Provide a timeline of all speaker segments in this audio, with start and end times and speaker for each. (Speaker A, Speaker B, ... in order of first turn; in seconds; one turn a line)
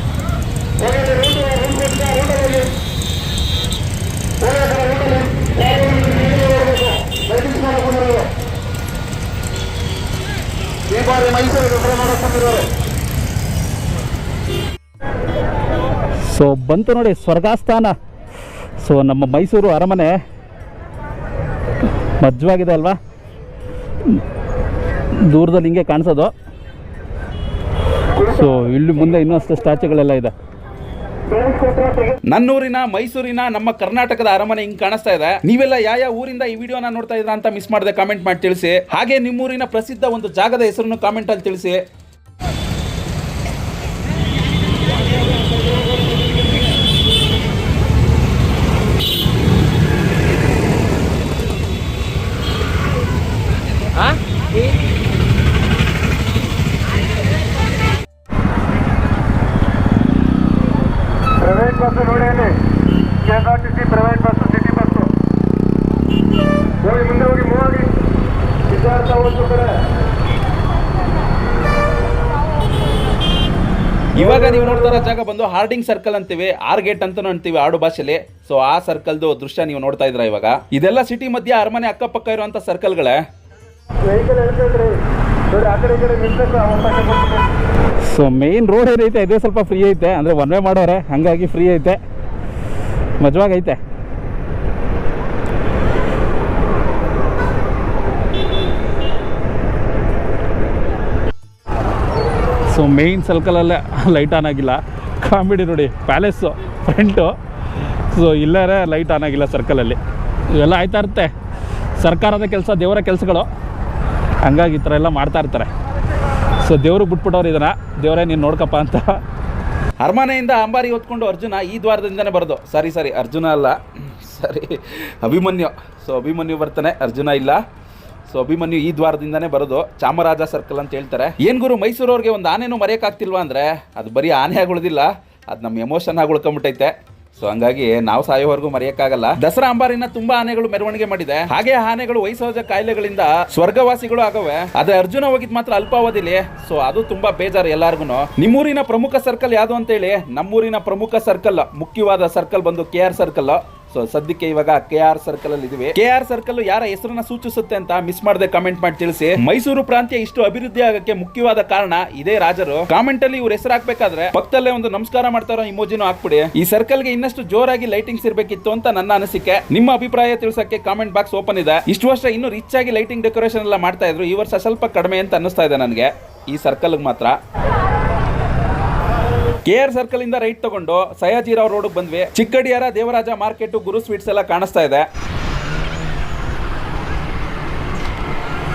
Speaker A: 0.9-2.6
Speaker A: 4.4-8.3
Speaker A: 10.9-12.6
Speaker B: 16.2-18.0
Speaker B: 18.8-20.1
Speaker B: 22.2-23.0
Speaker B: 25.2-26.3
Speaker B: 28.2-30.3
Speaker A: 31.6-32.0
Speaker C: 32.3-41.8
Speaker A: 61.4-62.6
Speaker A: 63.2-65.1
Speaker A: 66.8-67.9
Speaker A: 68.7-69.8
Speaker C: 74.1-83.2
Speaker A: 84.1-85.0
Speaker A: 85.5-87.5
Speaker B: 88.1-92.0
Speaker B: 93.2-93.8
Speaker B: 102.7-110.0
Speaker B: 110.5-111.3
Speaker B: 112.0-113.5
Speaker B: 114.5-115.7
Speaker B: 116.6-119.2
Speaker C: 120.0-127.6
Speaker C: 128.3-177.3
Speaker C: 179.7-185.1